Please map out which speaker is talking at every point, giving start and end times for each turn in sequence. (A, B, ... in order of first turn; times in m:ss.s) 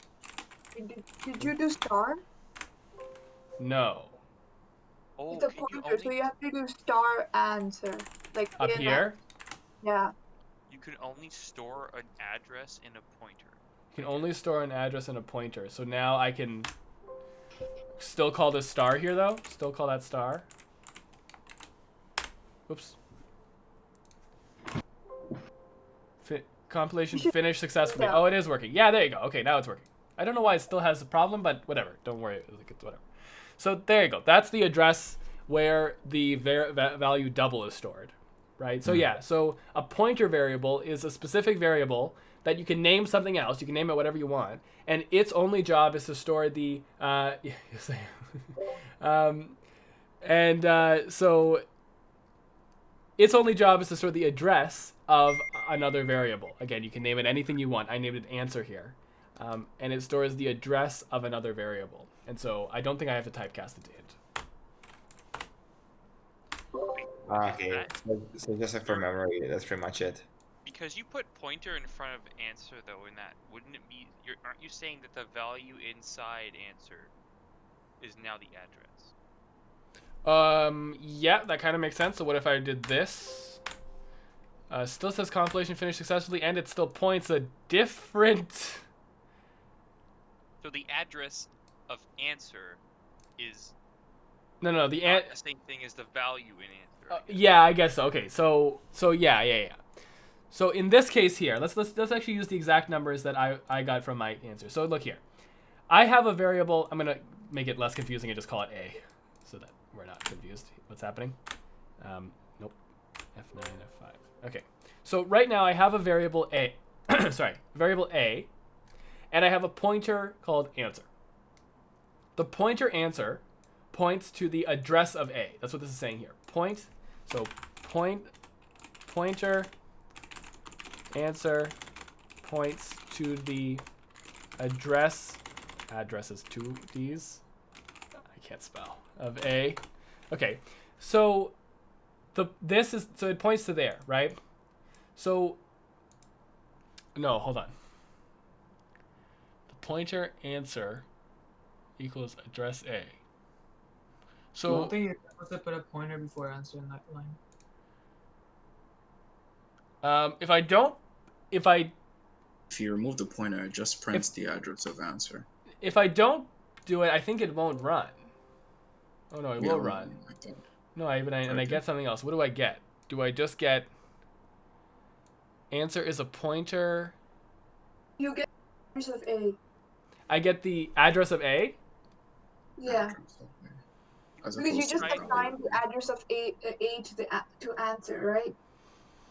0:00.8-0:02.2 A
0:03.6-0:04.1 B
0:05.2-0:06.2 C
0:05.3-0:09.1 A
0:08.6-0:09.2 B
0:09.8-0:10.1 A
0:10.7-0:14.3 C
0:13.9-0:16.7 B
0:18.0-0:20.5 B
0:22.7-0:23.0 B
0:26.2-0:33.0 B
0:27.1-0:28.2 A
0:33.6-0:48.1 B
0:49.0-0:49.6 B
0:50.2-0:51.6 B
0:53.2-1:04.2 B
1:07.0-1:07.9 C
1:07.2-1:10.3 D
1:08.8-1:09.2 C
1:10.6-1:17.1 C
1:18.0-1:19.1 C
1:20.2-1:23.6 B
1:24.7-1:28.8 B
1:30.6-1:32.8 C
1:33.4-1:33.8 C
1:34.6-1:35.3 B
1:35.0-1:37.5 C
1:37.1-1:39.8 B
1:40.5-1:45.2 B
1:45.9-1:51.4 B
1:52.0-1:52.8 B
1:53.4-1:58.5 B
1:59.3-2:01.1 B
2:02.4-2:08.3 B
2:09.1-2:09.7 B
2:11.1-2:11.8 B
2:12.4-2:13.8 B
2:14.6-2:17.4 B
2:18.3-2:21.6 B
2:22.3-2:24.4 B
2:25.2-2:25.6 B
2:27.2-2:27.7 B
2:29.7-2:31.1 B
2:32.0-2:33.2 B
2:34.5-2:35.0 B
2:34.7-2:37.4 E
2:40.0-2:41.0 B
2:41.5-2:41.9 B
2:42.7-2:45.5 F
2:45.8-2:48.2 B
2:49.3-2:50.1 B
2:49.6-2:50.6 F
2:51.0-2:53.9 B
2:51.5-2:51.8 F
2:55.7-2:57.2 B
2:58.2-2:59.6 A
3:00.3-3:01.8 B
3:02.8-3:03.2 A
3:02.8-3:03.8 F
3:04.4-3:05.4 C
3:04.4-3:05.8 F
3:04.6-3:08.6 A